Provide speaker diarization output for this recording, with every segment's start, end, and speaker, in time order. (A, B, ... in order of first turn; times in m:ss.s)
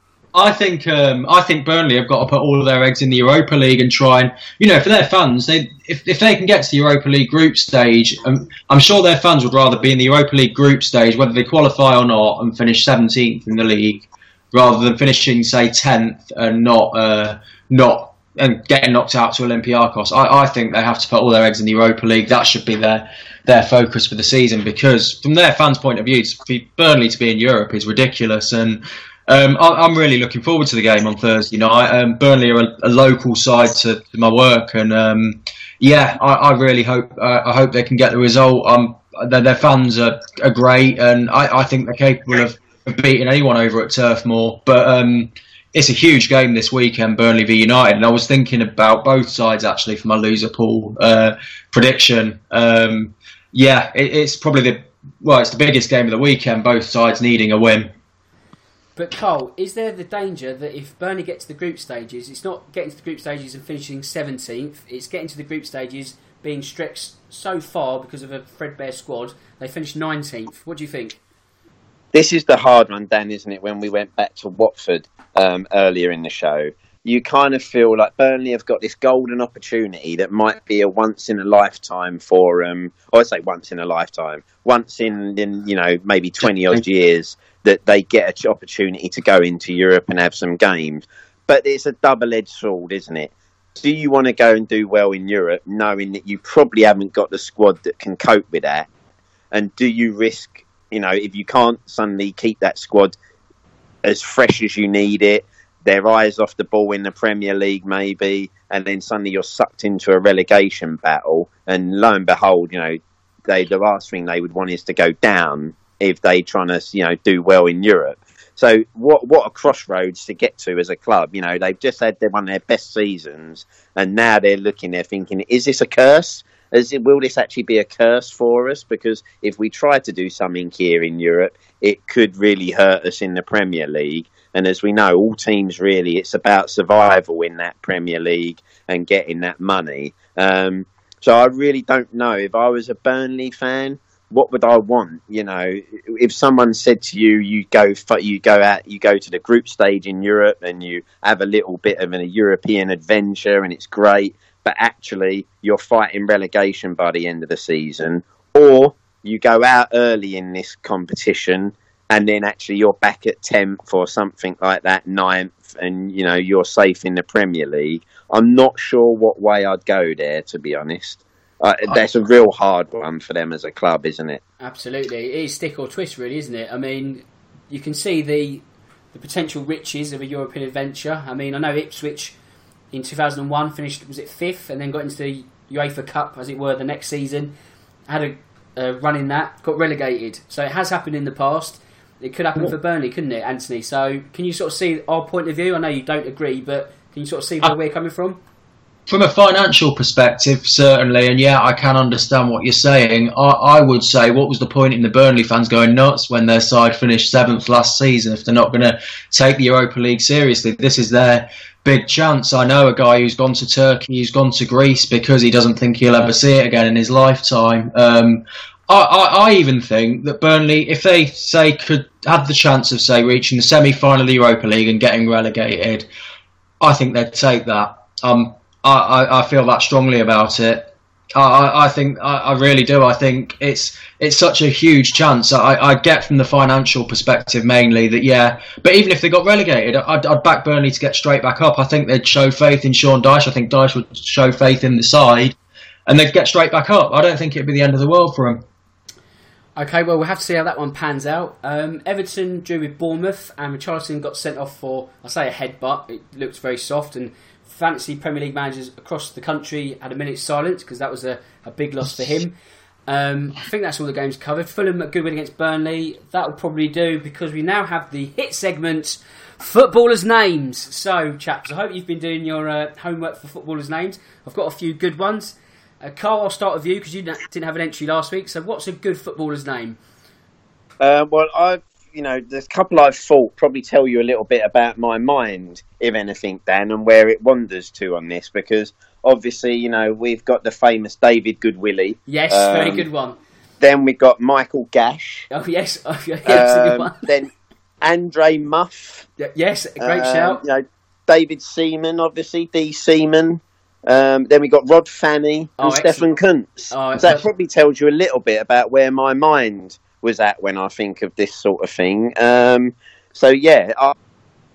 0:00.3-0:57.9 A
0:59.0-1:11.2 B
1:12.1-1:38.9 C
1:39.5-1:43.2 C
1:44.0-2:54.4 C
2:54.6-3:02.4 B
3:02.9-3:07.6 B
3:08.1-3:18.4 B
3:19.1-3:46.1 A
3:46.8-4:05.6 A
4:06.1-4:08.6 A
4:09.8-4:22.6 B
4:23.1-4:40.0 B
4:41.0-4:53.0 C
4:52.3-4:53.4 B
4:53.8-4:55.5 C
4:55.5-4:57.2 B
4:56.5-4:57.5 C
4:58.0-4:59.3 C
4:59.4-5:00.6 B
5:00.0-5:14.2 C
5:05.8-5:06.3 B
5:06.9-5:07.4 B